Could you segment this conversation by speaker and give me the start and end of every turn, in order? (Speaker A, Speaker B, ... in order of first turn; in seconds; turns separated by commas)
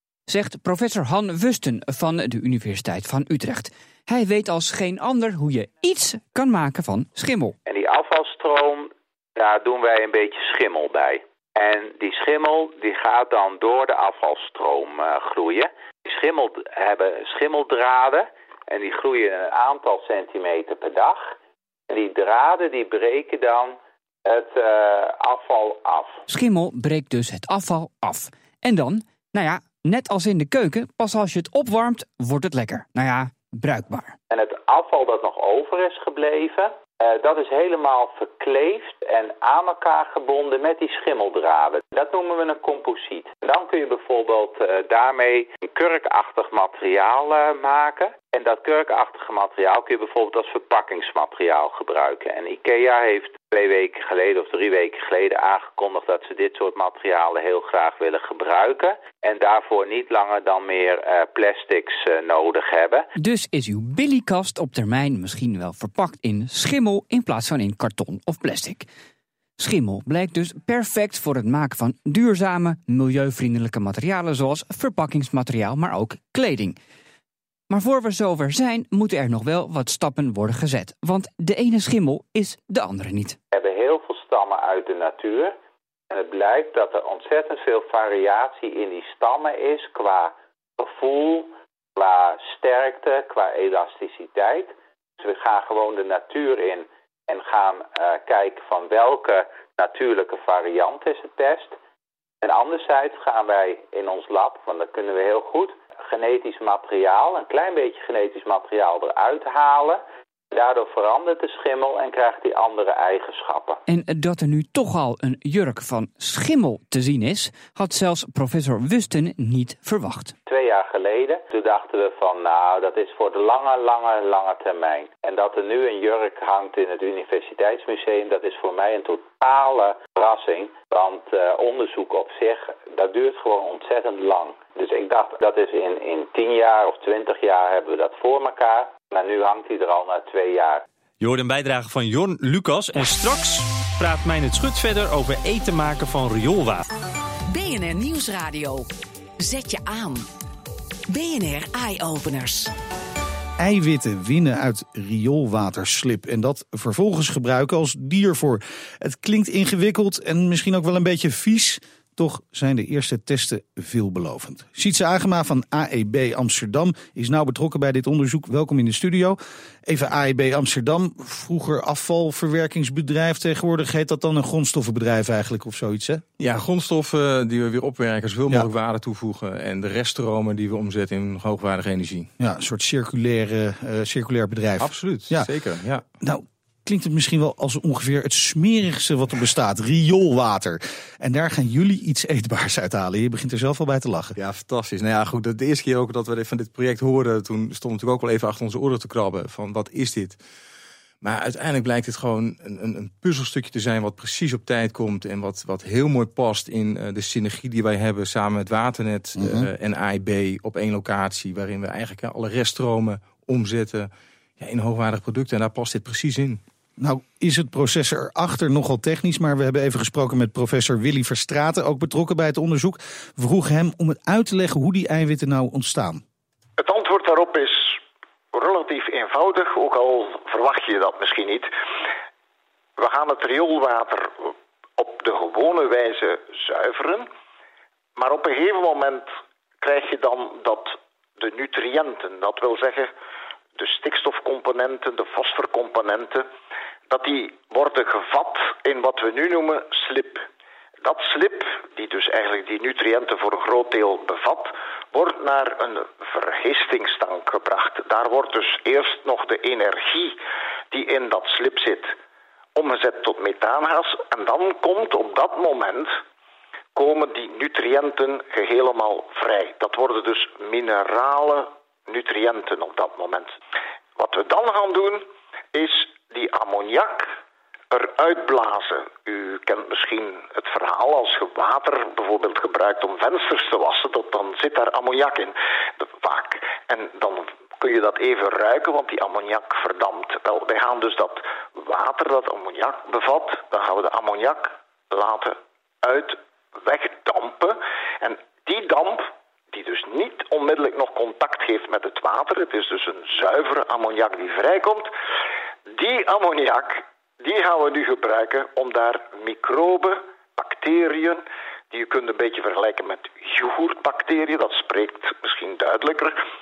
Speaker A: 0.3-7.5, Speaker B: 7.7-21.3, Speaker B: 21.9-26.2, Speaker A: 26.3-34.2, Speaker B: 34.3-63.1, Speaker A: 63.2-68.9, Speaker A: 69.6-76.8, Speaker A: 77.7-83.4, Speaker B: 83.5-85.6, Speaker B: 86.1-101.8, Speaker B: 102.4-113.8, Speaker A: 113.9-120.3, Speaker B: 120.5-140.8, Speaker C: 141.2-146.8, Speaker D: 147.5-148.9, Speaker D: 149.4-150.3, Speaker D: 151.1-152.7, Speaker E: 153.6-176.2, Speaker F: 176.4-182.3, Speaker E: 182.4-185.5, Speaker F: 184.8-186.0, Speaker E: 186.2-194.4, Speaker F: 194.4-200.4, Speaker F: 201.2-216.6, Speaker E: 209.4-209.7, Speaker E: 217.0-226.2, Speaker G: 226.8-228.0, Speaker G: 228.5-231.7, Speaker G: 233.0-237.3, Speaker G: 238.2-239.3, Speaker G: 239.8-243.1, Speaker G: 243.8-246.5, Speaker G: 247.1-250.5, Speaker G: 251.0-260.4, Speaker G: 260.9-262.2, Speaker G: 262.8-266.2, Speaker G: 266.9-273.6, Speaker G: 274.2-277.3, Speaker G: 277.9-305.1, Speaker G: 305.9-316.4